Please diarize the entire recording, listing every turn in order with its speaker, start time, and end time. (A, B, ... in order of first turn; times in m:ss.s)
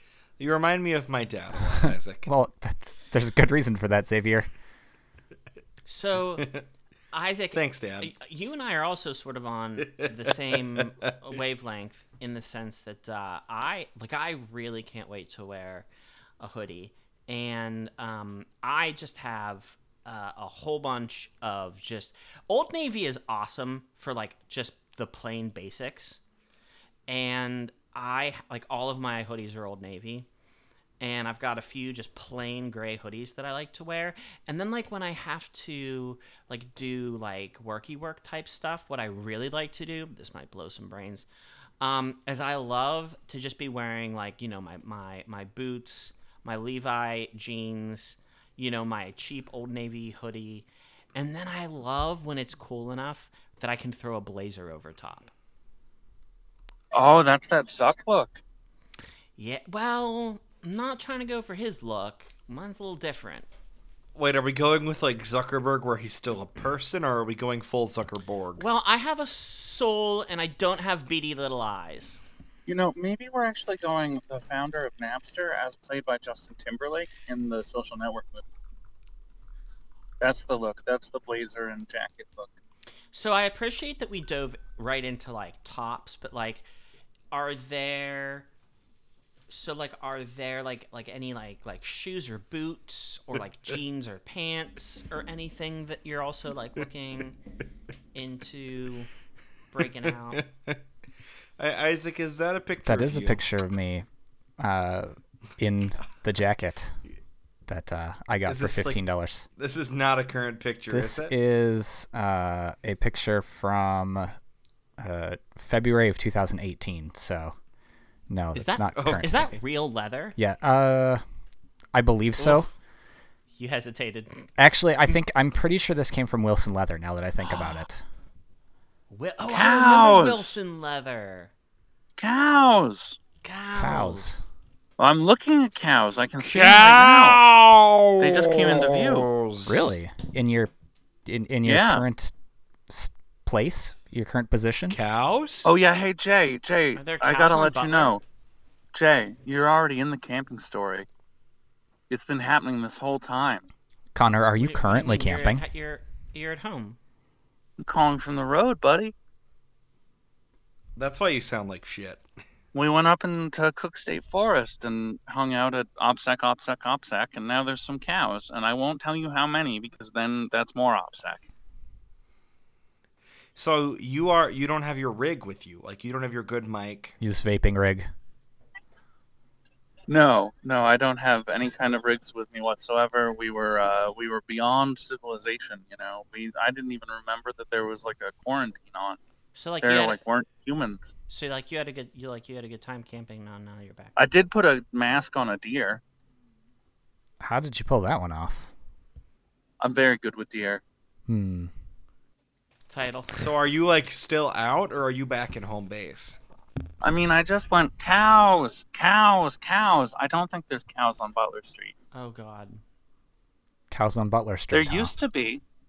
0:00.4-0:02.3 A
0:01.6-0:04.5 B
0:05.9-0:06.5 C
0:06.4-0:06.6 A
0:07.1-0:15.9 C
0:07.5-0:08.1 A
0:09.8-0:11.1 A
0:16.4-0:26.2 C
0:27.1-0:30.3 C
0:31.0-0:41.2 C
0:41.8-0:55.3 C
0:56.9-0:58.4 D
0:59.4-1:03.5 C
1:04.1-1:08.6 A
1:08.6-1:12.2 C
1:12.7-1:18.4 D
1:20.2-1:22.5 D
1:23.1-1:26.6 C
1:27.3-1:28.5 C
1:29.5-1:37.4 C
1:38.1-1:39.1 C
1:39.7-1:40.4 C
1:40.3-1:40.8 A
1:41.6-1:43.4 A
1:42.8-1:44.0 B
1:44.6-1:47.0 B
1:47.7-1:49.4 B
1:48.4-1:49.0 A
1:49.6-1:51.3 A
1:50.9-1:54.3 B
1:55.0-1:57.5 B
1:58.3-1:59.4 B
1:58.5-2:00.4 C
1:58.9-1:59.6 A
2:00.4-2:01.2 B
2:01.9-2:02.7 B
2:02.4-2:02.7 C
2:03.6-2:04.5 C
2:04.6-2:08.0 B
2:07.4-2:07.8 C
2:09.1-2:11.5 C
2:09.5-2:10.5 D
2:12.2-2:13.2 D
2:13.4-2:14.3 C
2:13.8-2:14.4 B
2:15.0-2:17.4 D
2:16.4-2:19.9 A
2:18.2-2:19.3 D
2:19.6-2:20.7 B
2:21.2-2:22.3 B
2:21.6-2:22.0 D
2:22.9-2:25.0 B
2:24.9-2:25.7 A
2:25.6-2:28.2 D
2:26.9-2:28.1 C
2:28.9-2:31.1 D
2:32.1-2:33.6 D
2:34.1-2:35.6 B
2:34.6-2:37.0 C
2:37.8-2:39.1 D
2:41.0-2:42.2 A
2:42.7-2:51.4 D
2:53.6-2:57.2 A
2:57.2-2:58.1 B
3:00.1-3:09.2 D
3:09.5-3:10.2 C
3:09.8-3:11.1 D
3:11.3-3:14.2 C
3:14.2-3:16.0 D
3:17.4-3:18.7 B
3:19.8-3:20.8 D
3:21.3-3:21.7 B
3:22.9-3:23.3 C
3:23.3-3:26.4 A
3:27.0-3:31.9 D
3:32.1-3:32.8 C
3:33.9-3:35.1 B
3:34.7-3:35.6 D